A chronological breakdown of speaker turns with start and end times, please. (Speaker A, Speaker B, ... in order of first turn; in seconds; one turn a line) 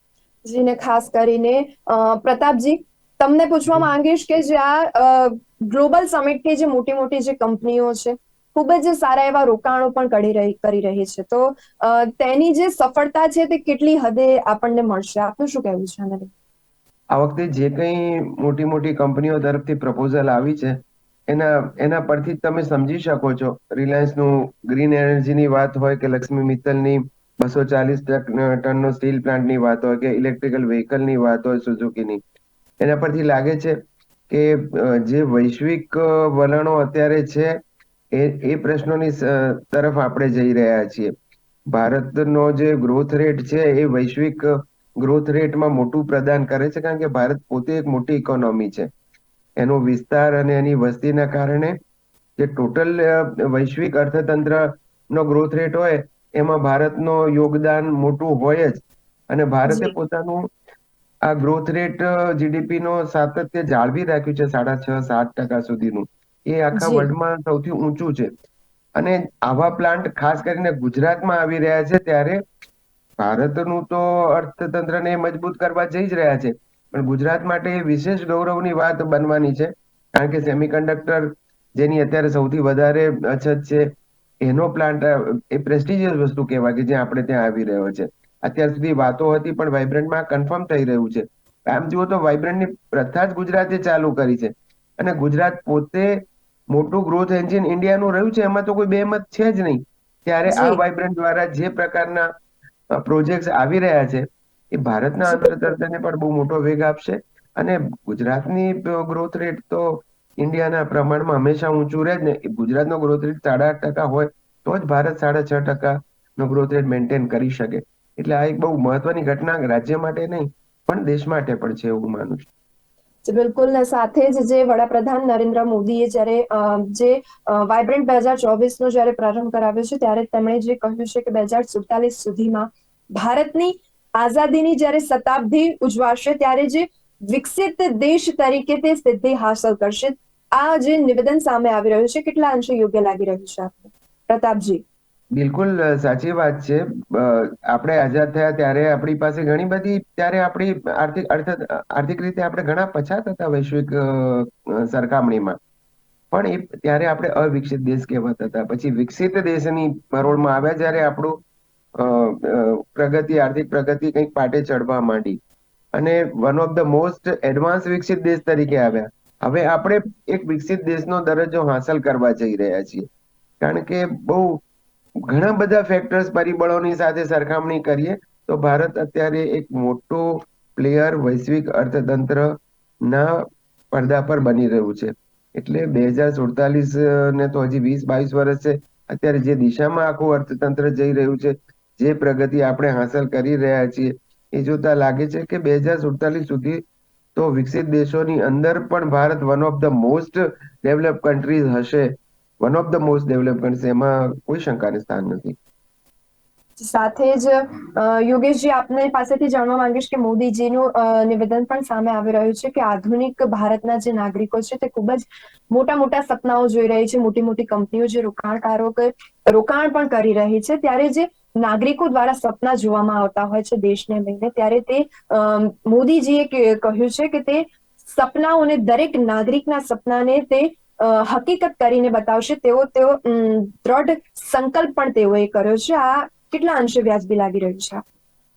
Speaker A: 0.5-16.3
Speaker B: 17.1-32.2
Speaker B: 32.8-33.8
Speaker B: 34.3-37.5
Speaker B: 38.1-41.1
Speaker B: 41.7-48.9
Speaker B: 49.6-51.8
Speaker B: 52.4-60.5
Speaker A: 59.7-59.9
Speaker B: 61.3-68.3
Speaker A: 66.7-67.1
Speaker B: 69.0-72.4
Speaker B: 73.2-102.3
Speaker A: 100.5-100.8
Speaker B: 102.9-122.5
Speaker A: 105.2-105.7
Speaker A: 123.2-144.8
Speaker B: 145.3-155.6
Speaker B: 156.3-161.4
Speaker B: 161.9-165.4
Speaker B: 165.9-173.1
Speaker B: 173.6-174.6
Speaker B: 175.3-196.8
Speaker B: 197.3-205.6
Speaker A: 206.8-238.0